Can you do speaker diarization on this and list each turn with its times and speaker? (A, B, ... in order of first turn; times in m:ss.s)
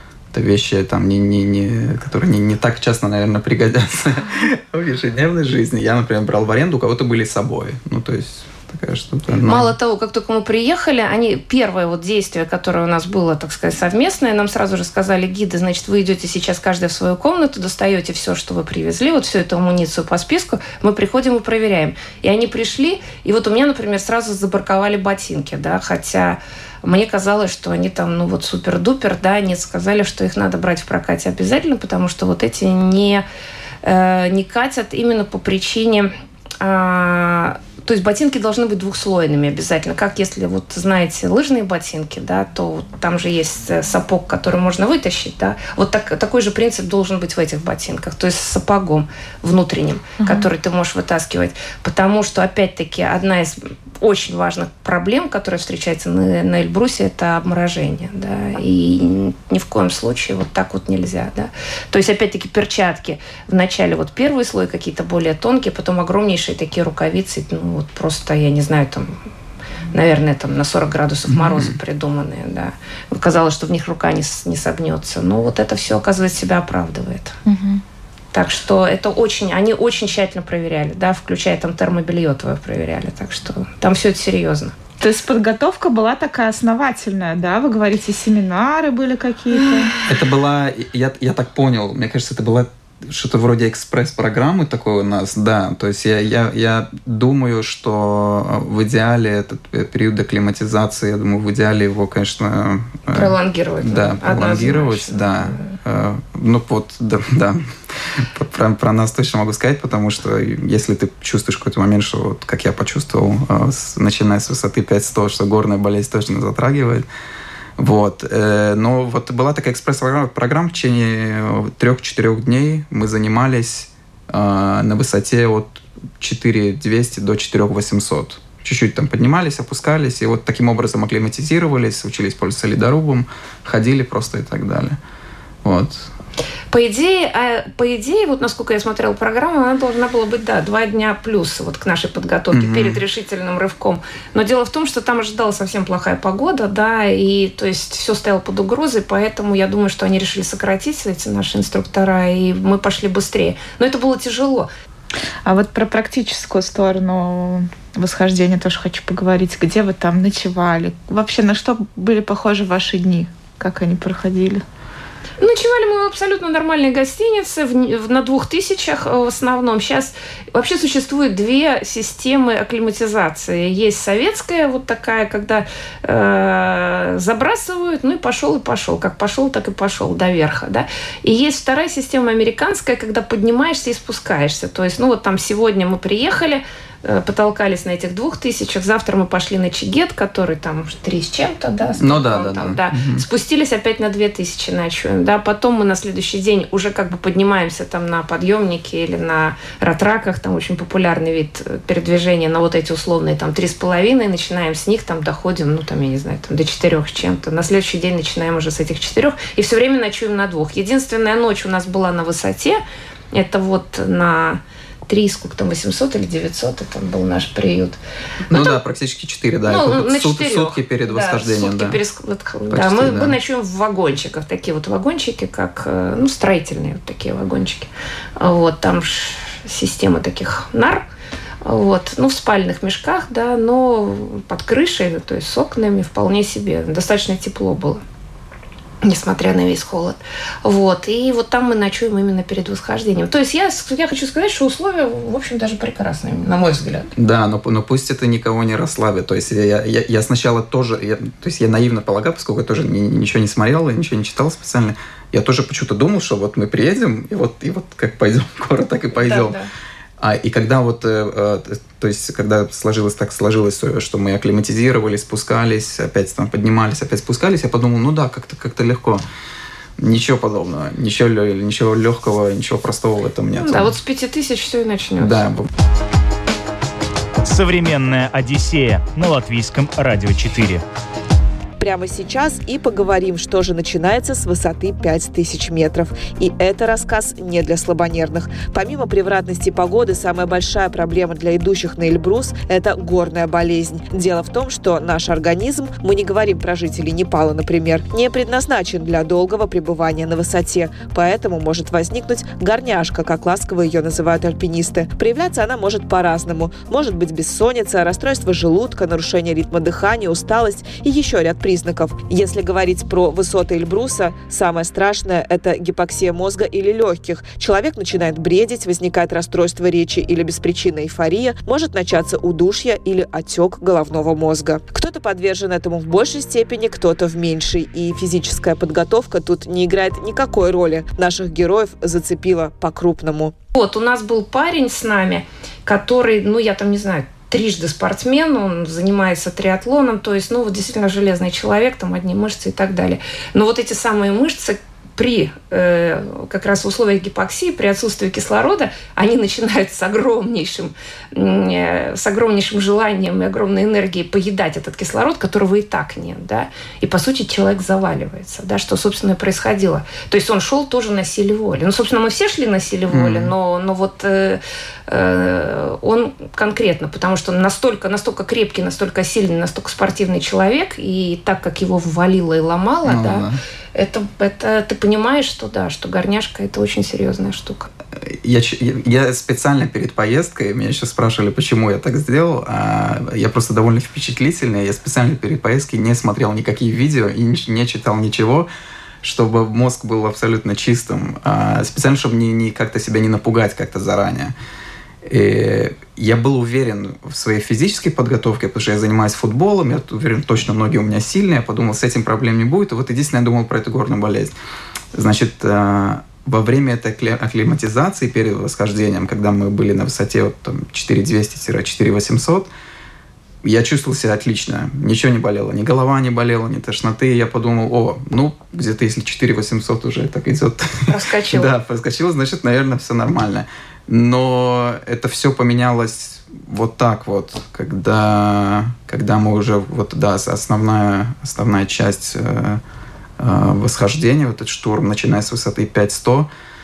0:00.3-0:09.7 A
0:09.4-0:33.2 B
0:33.8-1:09.2 B
0:50.2-0:50.4 C
1:09.9-1:17.4 B
1:11.3-1:11.8 A
1:17.5-1:17.8 C
1:18.3-1:24.8 B
1:25.0-1:30.0 C
1:30.1-1:57.1 A
1:43.1-1:45.8 B
1:57.8-2:15.0 A
2:15.6-2:16.1 A
2:16.7-2:34.7 B
2:22.5-2:23.0 A
2:35.4-2:44.6 C
2:45.4-3:32.8 B
3:12.0-3:13.2 A
3:33.3-3:38.0 B
3:38.5-3:42.0 A
3:38.5-3:38.8 B
3:39.7-3:51.0 B
3:42.7-3:43.4 A
3:51.6-3:58.0 B
3:59.0-4:07.1 B
4:07.2-4:19.6 A
4:19.2-4:19.7 B
4:20.2-4:29.2 A
4:30.0-4:34.0 A
4:33.6-4:35.5 B
4:35.2-4:35.7 A
4:37.4-4:40.8 D
4:41.8-5:33.6 E
5:33.7-6:17.9 B
6:03.1-6:03.5 A
6:13.1-6:13.6 A
6:18.2-6:28.7 A
6:29.2-6:34.5 A
6:35.2-6:44.5 A
6:45.1-6:52.7 A
6:53.6-7:12.8 A
7:01.1-7:01.7 B
7:13.4-7:16.5 A